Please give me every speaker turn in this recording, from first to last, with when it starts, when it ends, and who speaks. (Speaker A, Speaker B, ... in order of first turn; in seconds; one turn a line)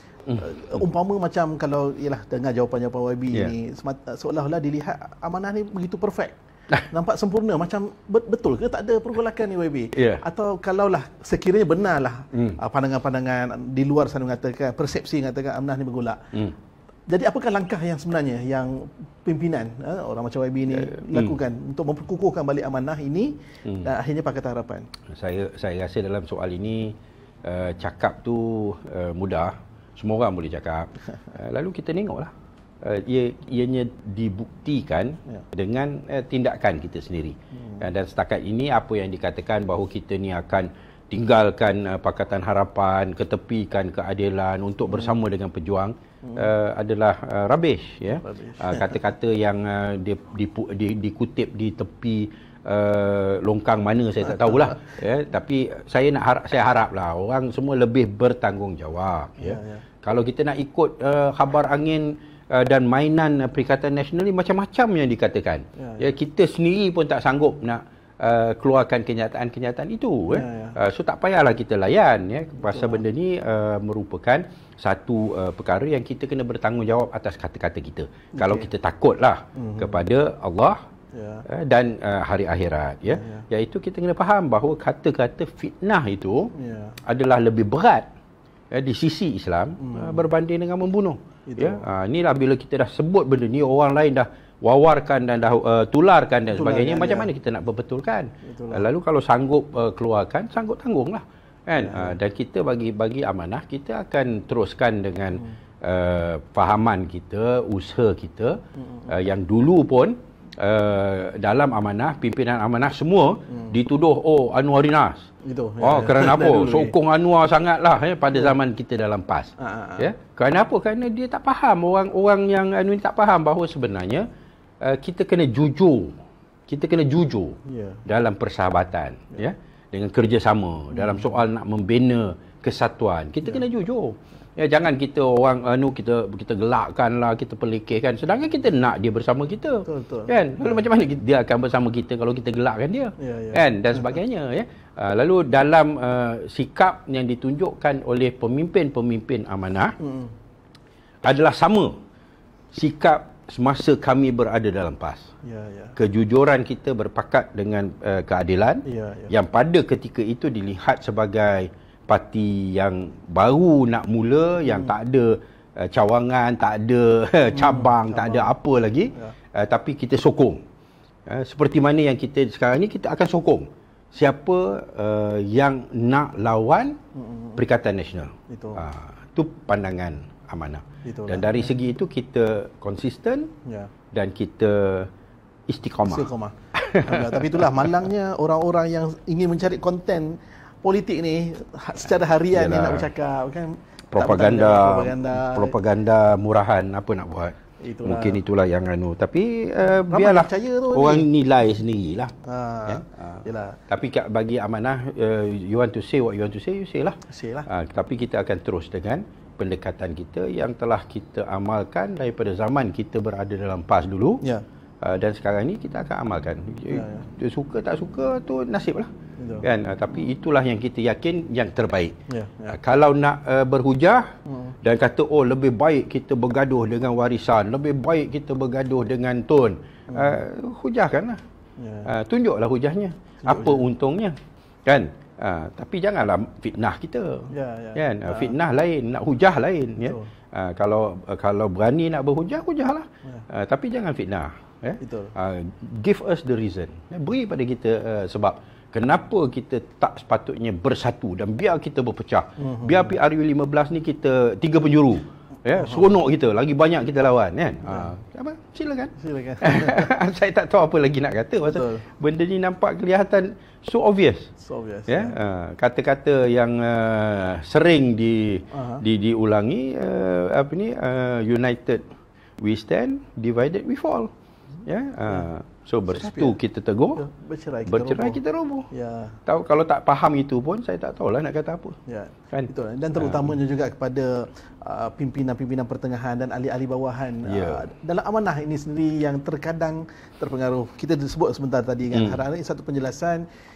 Speaker A: 0.3-16.3
Speaker B: 9.9-10.2
Speaker A: 17.1-24.9
Speaker B: 20.7-21.3
Speaker B: 25.1-80.8
Speaker A: 46.2-46.5
Speaker A: 48.2-49.0
Speaker A: 54.4-54.7
Speaker A: 59.4-59.9
Speaker A: 65.8-66.1
Speaker A: 70.3-70.8
Speaker A: 72.7-73.0
Speaker A: 78.3-78.7
Speaker A: 79.5-80.0
Speaker A: 81.1-81.5
Speaker B: 81.5-86.5
Speaker A: 83.1-83.5
Speaker A: 86.5-87.0
Speaker B: 87.0-88.1
Speaker B: 88.7-115.3
Speaker A: 89.8-90.3
Speaker A: 91.5-91.8
Speaker A: 96.5-97.3
Speaker A: 98.4-98.9
Speaker A: 101.7-102.2
Speaker A: 108.8-109.1
Speaker A: 115.4-117.0
Speaker B: 115.8-124.3
Speaker A: 119.6-120.1
Speaker B: 124.8-126.1
Speaker B: 126.7-149.9
Speaker A: 127.7-128.0
Speaker A: 130.9-131.3
Speaker A: 139.8-140.8
Speaker A: 143.2-144.2
Speaker A: 150.0-150.3
Speaker B: 151.2-151.9
Speaker B: 152.7-155.3
Speaker A: 155.4-155.9
Speaker B: 155.9-170.6
Speaker A: 158.8-159.3
Speaker A: 164.6-164.9
Speaker A: 167.5-168.5
Speaker B: 171.3-177.0
Speaker A: 177.1-177.6
Speaker B: 177.6-183.5
Speaker A: 178.5-178.8
Speaker A: 181.0-181.7
Speaker A: 183.6-183.9
Speaker B: 184.1-185.1
Speaker B: 185.7-187.7
Speaker A: 186.0-195.8
Speaker B: 192.5-193.1
Speaker B: 194.1-202.3
Speaker A: 197.8-198.4
Speaker A: 200.0-201.3
Speaker A: 202.4-203.8
Speaker B: 202.9-214.4
Speaker A: 207.3-207.7
Speaker B: 215.0-219.1
Speaker A: 216.9-217.3
Speaker A: 219.4-219.7
Speaker B: 219.6-222.2
Speaker A: 222.3-222.8
Speaker B: 222.7-224.3
Speaker A: 224.5-224.8
Speaker B: 224.8-231.4
Speaker A: 230.1-230.4
Speaker A: 231.8-232.1
Speaker B: 232.0-264.5
Speaker A: 233.4-233.8
Speaker A: 237.5-238.5
Speaker A: 240.0-240.3
Speaker A: 245.0-245.3
Speaker A: 252.6-253.2
Speaker A: 255.7-256.1
Speaker A: 257.9-258.1
Speaker A: 259.2-260.1
Speaker A: 261.7-262.0
Speaker A: 264.6-265.4
Speaker B: 265.1-272.1
Speaker A: 268.7-269.0
Speaker B: 272.6-274.3
Speaker B: 274.9-277.2
Speaker A: 276.1-276.6
Speaker A: 277.2-279.4
Speaker B: 277.9-278.9
Speaker B: 279.5-282.0
Speaker A: 282.1-293.4
Speaker B: 282.5-283.5
Speaker B: 287.4-287.9
Speaker B: 292.1-292.4